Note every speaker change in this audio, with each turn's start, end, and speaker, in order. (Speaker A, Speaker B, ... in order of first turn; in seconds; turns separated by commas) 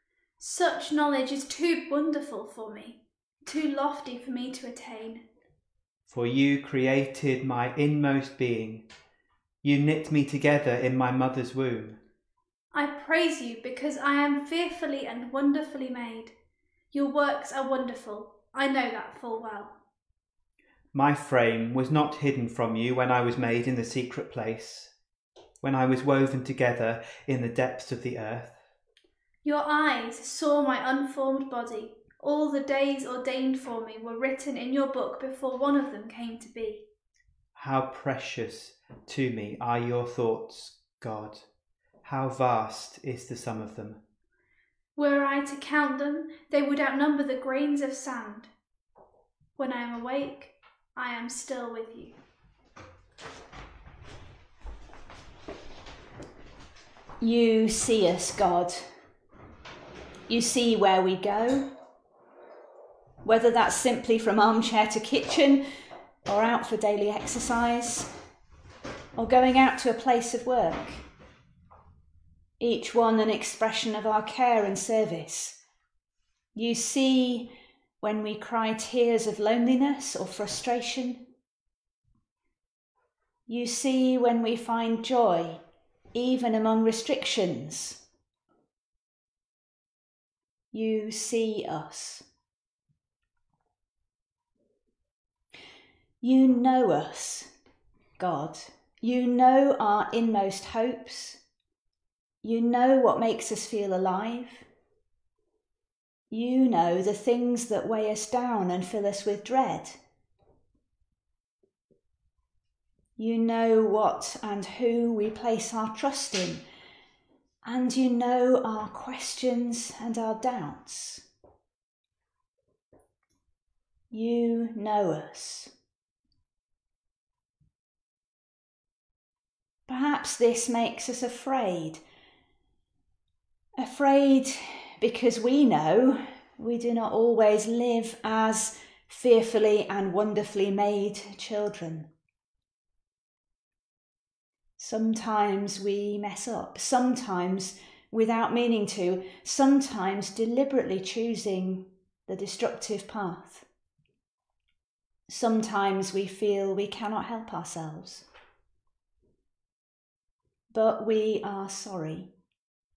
Speaker A: 0.4-5.2, Speaker B: 6.1-8.9, Speaker B: 9.6-12.0, Speaker A: 12.7-16.3, Speaker A: 16.9-19.8, Speaker B: 20.9-24.9, Speaker B: 25.6-28.6, Speaker A: 29.4-36.9, Speaker B: 37.5-41.5, Speaker B: 42.0-44.0, Speaker A: 45.0-48.5, Speaker A: 49.5-52.2, Speaker C: 57.2-58.9, Speaker C: 60.3-61.7, Speaker C: 63.2-65.7, Speaker C: 66.3-68.1, Speaker C: 69.2-71.0, Speaker C: 72.6-75.6, Speaker C: 76.5-81.3, Speaker C: 83.5-85.6, Speaker C: 86.1-88.0, Speaker C: 90.7-92.2, Speaker C: 96.2-97.5, Speaker C: 98.2-101.4, Speaker C: 102.4-104.7, Speaker C: 106.3-110.0, Speaker C: 113.2-116.6, Speaker C: 117.6-121.2, Speaker C: 124.1-125.7, Speaker C: 129.9-132.0, Speaker C: 133.8-142.1, Speaker C: 144.8-153.7, Speaker C: 155.3-158.2, Speaker C: 160.7-162.3